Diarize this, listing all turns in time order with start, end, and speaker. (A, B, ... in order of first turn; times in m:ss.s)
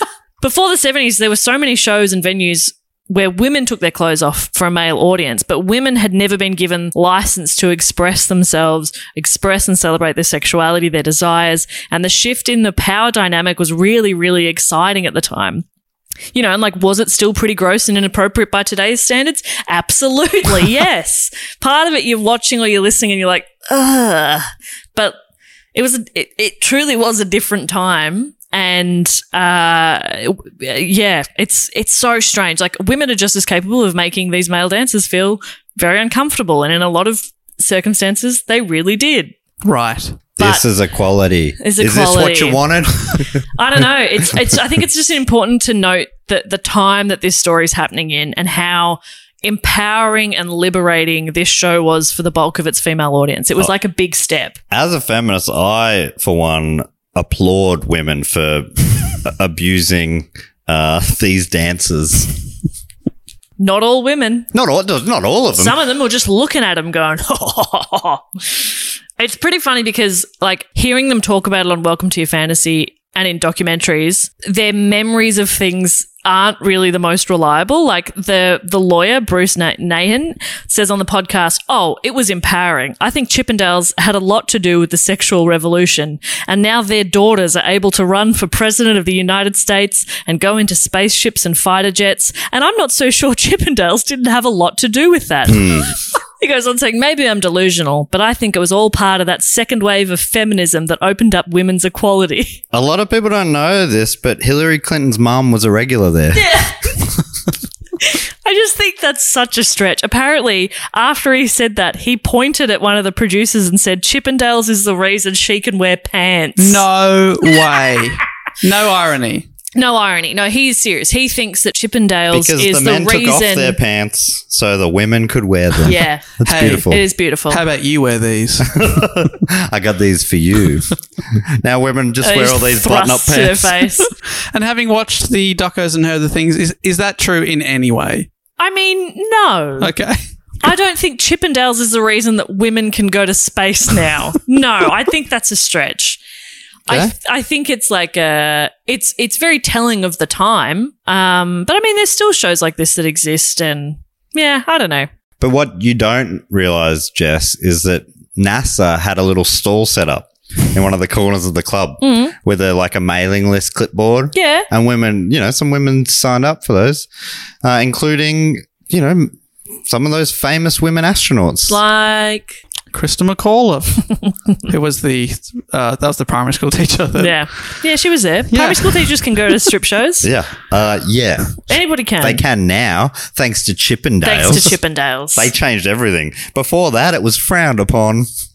0:00.4-0:15.6 A
0:16.3-0:25.2 A
0:25.7-0:39.3 A
0:39.6-0:40.2 B
0:40.4-0:43.4 C
0:41.6-0:42.6 A
0:43.6-0:54.6 A
0:54.7-0:58.7 C
0:59.2-1:02.3 C
1:03.6-1:04.5 A
1:04.5-1:05.8 C
1:05.5-1:35.8 A
1:35.5-1:35.9 C
1:36.4-1:42.6 A
1:42.7-1:46.6 C
1:46.3-1:46.8 A
1:48.0-1:56.8 A
1:56.6-1:59.5 B
1:59.8-2:03.8 A
2:02.3-2:07.0 C
2:05.8-2:07.6 A
2:06.4-2:06.9 B
2:07.5-2:08.9 B
2:08.7-2:10.9 C
2:11.6-2:13.8 C
2:12.2-2:14.1 A
2:14.1-2:18.3 B
2:18.6-2:19.9 A
2:19.8-2:20.2 B
2:20.6-2:26.2 A
2:26.9-2:35.1 A
2:35.4-2:47.1 C
2:42.0-2:42.3 A
2:44.3-2:44.7 A
2:47.6-2:49.3 C
2:49.9-2:51.8 C
2:51.7-2:52.6 A
2:52.9-2:54.1 B
2:54.7-2:57.8 B
2:57.2-3:00.3 A
2:58.5-2:59.6 B
3:00.2-3:01.6 C
3:01.7-3:02.4 A
3:02.2-3:04.7 C
3:04.2-3:05.5 A
3:05.4-3:08.3 C